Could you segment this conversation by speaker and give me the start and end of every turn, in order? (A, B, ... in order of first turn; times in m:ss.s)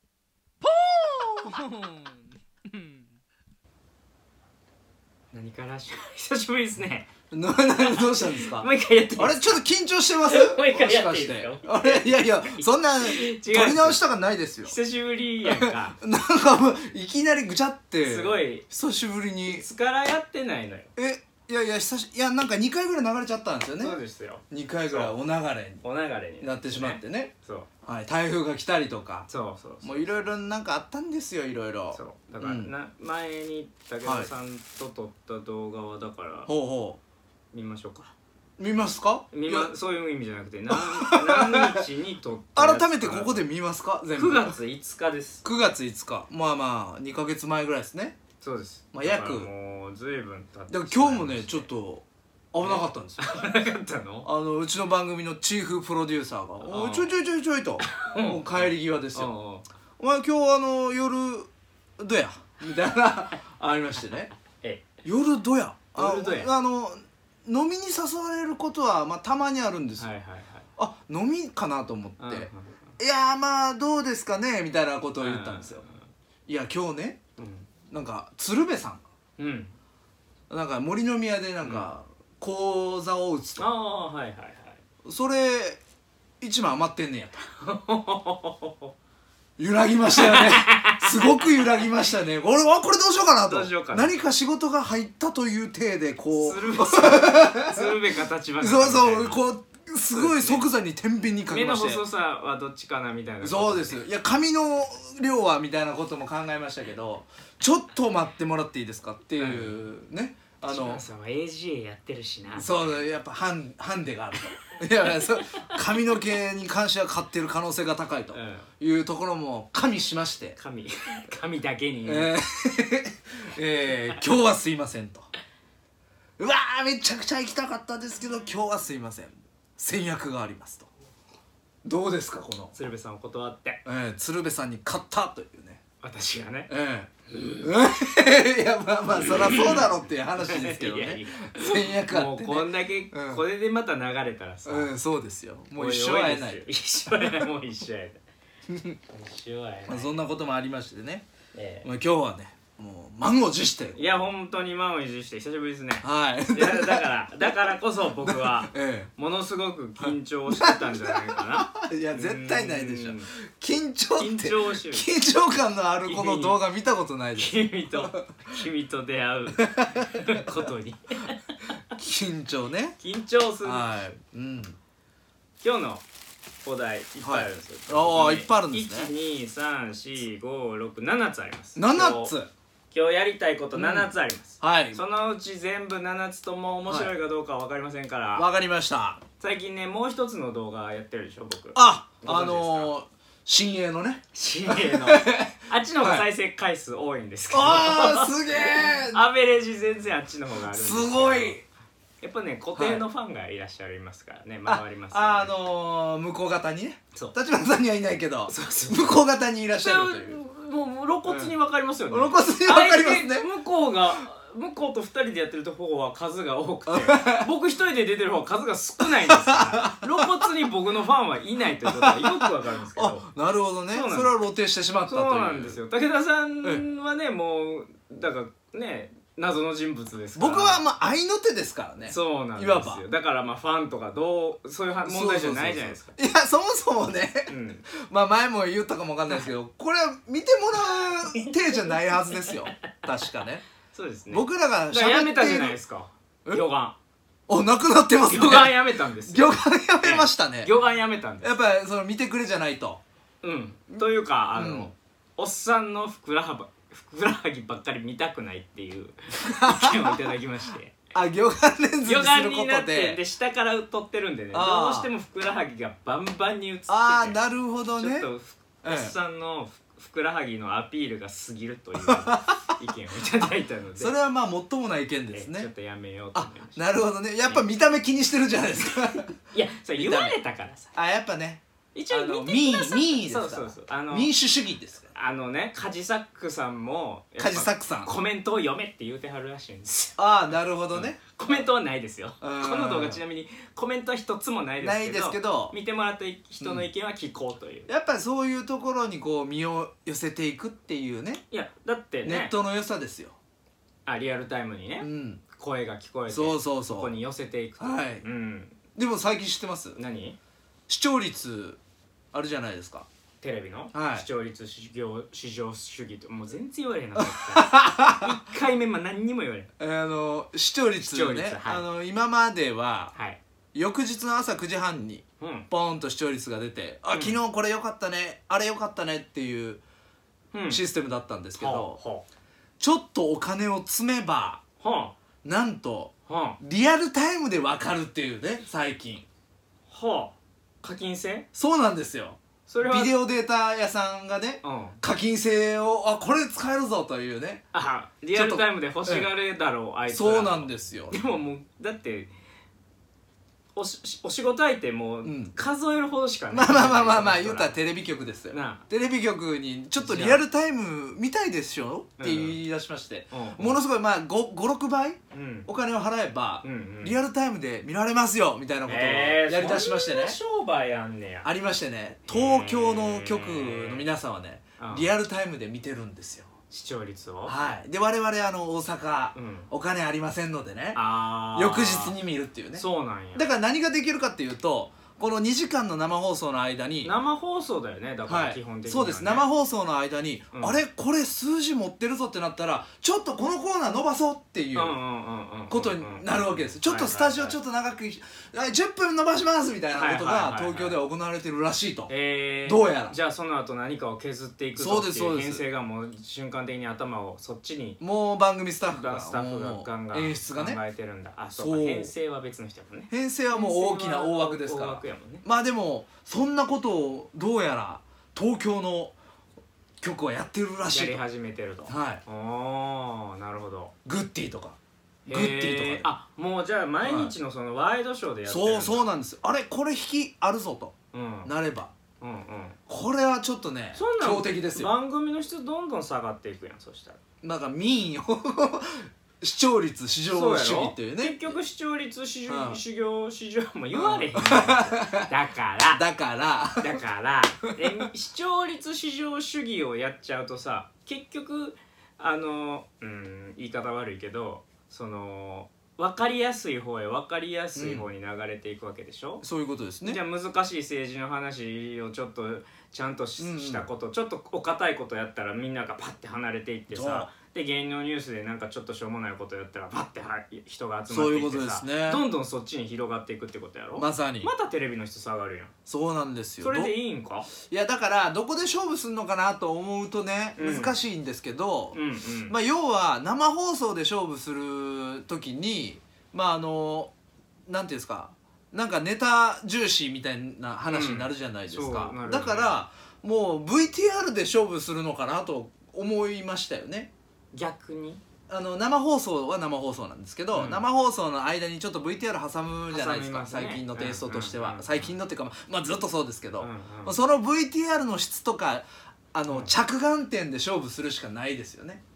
0:00.6-0:03.0 A
0:05.3-0:07.1 A
0:07.3-0:14.8 B
0:07.7-0:09.6 A
0:10.2-0:14.0 A
0:14.6-0:16.0 A
0:15.5-0:19.7 B
0:18.0-0:18.7 A
0:19.5-0:20.9 A
0:21.0-0:24.0 B
0:23.8-0:25.2 A
0:24.5-0:25.8 B
0:25.8-0:27.7 A
0:26.4-0:27.3 B
0:27.8-0:29.3 B
0:29.3-0:30.2 A
0:29.8-0:32.7 B
0:31.9-0:36.5 A
0:34.0-0:34.3 B
0:36.5-0:37.0 B
0:37.5-0:38.1 A
0:38.6-0:39.7 B
0:39.3-0:43.5 A
0:40.7-0:41.8 B
0:42.5-0:44.6 B
0:44.1-0:45.4 A
0:45.4-0:48.2 B
0:48.4-0:51.7 A
0:48.9-0:49.5 B
0:50.7-0:53.6 B
0:52.6-0:54.3 A
0:54.2-0:59.3 B
0:56.6-0:57.1 A
0:57.8-0:59.7 A
1:00.0-1:04.3 B
1:04.6-1:04.8 A
1:05.0-1:10.1 B
1:06.0-1:06.5 A
1:10.0-1:10.7 A
1:10.8-1:15.8 B
1:12.2-1:12.8 A
1:15.2-1:16.1 A
1:16.5-1:17.2 B
1:17.4-1:17.7 A
1:17.9-1:19.0 B
1:19.4-1:19.7 A
1:20.5-1:23.7 B
1:23.6-1:24.8 A
1:25.0-1:25.8 B
1:26.4-1:27.4 B
1:27.6-1:28.9 A
1:29.6-1:38.0 B
1:30.1-1:31.8 A
1:33.4-1:34.2 A
1:36.3-1:39.4 A
1:38.6-1:42.0 B
1:40.1-1:40.7 A
1:41.4-1:44.0 A
1:43.4-1:51.0 B
1:49.4-1:49.8 A
1:50.7-1:52.7 A
1:52.5-2:00.6 B
1:58.3-1:58.7 A
2:00.6-2:02.4 A
2:02.0-2:05.3 B
2:03.9-2:04.2 A
2:06.4-2:10.9 B
2:11.8-2:12.7 B
2:12.7-2:13.8 A
2:13.9-2:15.8 B
2:16.0-2:16.7 A
2:16.7-2:23.4 B
2:19.1-2:24.9 A
2:24.6-2:27.4 B
2:25.8-2:28.2 A
2:28.7-2:29.0 B
2:29.1-2:30.2 A
2:29.9-2:31.2 B
2:31.5-2:31.9 A
2:31.8-2:34.0 B
2:33.9-2:43.3 A
2:36.0-2:37.5 B
2:38.2-2:39.1 B
2:40.0-2:48.3 B
2:44.2-2:45.1 A
2:46.0-2:46.6 A
2:47.4-2:51.8 A
2:49.6-2:50.5 B
2:51.9-2:53.0 B
2:53.0-2:53.9 A
2:53.6-2:54.8 B
2:55.6-2:56.0 A
2:56.6-3:02.3 A
2:57.2-2:59.1 B
3:01.8-3:02.5 B
3:02.9-3:08.5 A
3:03.8-3:05.0 B
3:06.9-3:07.1 B
3:08.3-3:09.2 B
3:09.4-3:12.9 A
3:11.8-3:15.5 B
3:14.3-3:21.6 A
3:17.5-3:19.2 B
3:20.6-3:21.6 B
3:22.2-3:25.6 A
3:22.8-3:23.1 B
3:24.7-3:30.4 B
3:28.5-3:29.2 A
3:29.8-3:43.2 A
3:31.2-3:31.6 B
3:32.1-3:33.5 B
3:36.9-3:37.5 B
3:39.2-3:40.4 B
3:41.8-3:45.8 B
3:43.9-3:44.3 A
3:45.1-3:50.8 A
3:50.3-3:53.0 B
3:52.0-3:56.2 A
3:55.0-4:03.6 B
3:57.5-3:57.9 A
3:59.3-3:59.5 A
4:00.9-4:02.6 A
4:03.9-4:07.0 A
4:04.3-4:05.8 B
4:07.5-4:10.7 B
4:08.2-4:09.5 A
4:10.0-4:11.6 A
4:11.4-4:13.0 B
4:13.4-4:21.0 A
4:14.6-4:14.9 B
4:19.4-4:20.4 B
4:21.1-4:23.2 B
4:22.0-4:27.4 A
4:24.5-4:25.1 B
4:26.9-4:28.3 B
4:27.9-4:34.1 A
4:28.8-4:29.1 B
4:32.0-4:32.4 B
4:33.4-4:35.7 B
4:35.3-4:36.9 A
4:36.4-4:39.3 B
4:39.5-4:40.9 A
4:40.0-4:40.4 B
4:40.9-4:45.1 B
4:41.9-4:44.4 A
4:45.1-4:50.2 A
4:47.4-4:48.1 B
4:50.2-4:51.2 B
4:50.9-4:57.9 A
4:52.4-4:53.2 B
4:54.8-4:55.8 B
4:56.6-4:56.9 B
4:57.9-5:01.4 B
5:01.5-5:02.6 A
5:02.2-5:03.4 B
5:04.1-5:08.8 A
5:05.0-5:05.4 B
5:06.3-5:07.1 B
5:07.8-5:08.2 B
5:09.0-5:10.0 B
5:10.0-5:10.4 A
5:10.9-5:11.8 B
5:12.3-5:13.1 B
5:13.4-5:19.7 A
5:13.9-5:14.2 B
5:17.2-5:18.4 B
5:19.8-5:23.1 B
5:21.0-5:21.9 A
5:23.1-5:23.4 A
5:23.7-5:29.8 B
5:25.4-5:25.7 A
5:27.1-5:27.4 A
5:30.5-5:30.8 A
5:30.7-5:32.0 B
5:31.6-5:32.2 A
5:32.8-5:34.6 B
5:34.8-5:35.2 A
5:35.4-5:39.2 B
5:36.3-5:36.6 A
5:39.9-5:41.5 A
5:41.6-5:47.6 B
5:42.7-5:43.2 A
5:44.6-5:45.0 A
5:47.7-5:52.3 A
5:48.3-5:49.3 B
5:50.1-5:51.2 B
5:53.8-5:57.8 A
5:55.2-5:55.5 B
5:56.5-6:10.4 B
5:58.5-5:58.8 A
6:00.0-6:00.4 A
6:02.2-6:02.6 A
6:03.3-6:03.8 A
6:05.3-6:05.7 A
6:06.6-6:07.2 A
6:08.9-6:11.5 A
6:11.4-6:16.5 B
6:12.3-6:14.1 A
6:14.8-6:15.1 A
6:16.7-6:17.6 A
6:17.4-6:27.1 B
6:19.4-6:19.7 A
6:20.9-6:22.2 A
6:22.8-6:23.5 A
6:27.0-6:29.5 A
6:28.2-6:35.0 B
6:30.5-6:30.8 A
6:34.7-6:37.6 A
6:35.7-6:42.1 B
6:39.9-6:41.0 A
6:42.1-6:48.0 A
6:42.6-6:43.2 B
6:44.8-6:45.6 B
6:48.0-6:50.8 B
6:48.9-6:55.4 A
6:51.5-6:52.1 B
6:53.1-6:59.2 B
7:00.0-7:01.2 B
7:00.9-7:03.9 A
7:01.9-7:02.2 B
7:04.0-7:06.1 B
7:05.3-7:09.0 A
7:07.0-7:07.3 B
7:08.5-7:10.9 B
7:11.1-7:11.5 A
7:11.4-7:11.9 B
7:12.2-7:12.8 A
7:12.9-7:14.9 B
7:13.9-7:17.2 A
7:17.4-7:21.5 B
7:20.3-7:26.0 A
7:22.5-7:22.8 B
7:23.9-7:25.3 B
7:25.9-7:27.0 B
7:26.8-7:39.4 A
7:37.8-7:38.1 B
7:39.4-7:40.2 B
7:40.0-7:55.7 A
7:43.4-7:43.9 B
7:46.9-7:47.3 B
7:51.1-7:52.2 B
7:54.0-7:54.5 B
7:55.9-7:56.9 B
7:56.6-7:57.5 A
7:57.6-8:07.1 B
8:00.6-8:01.0 A
8:01.9-8:02.6 A
8:07.7-8:17.1 B
8:10.9-8:12.8 A
8:17.5-8:18.2 A
8:18.5-8:32.0 B
8:20.5-8:20.8 A
8:22.9-8:25.1 A
8:26.6-8:27.2 A
8:29.5-8:29.7 A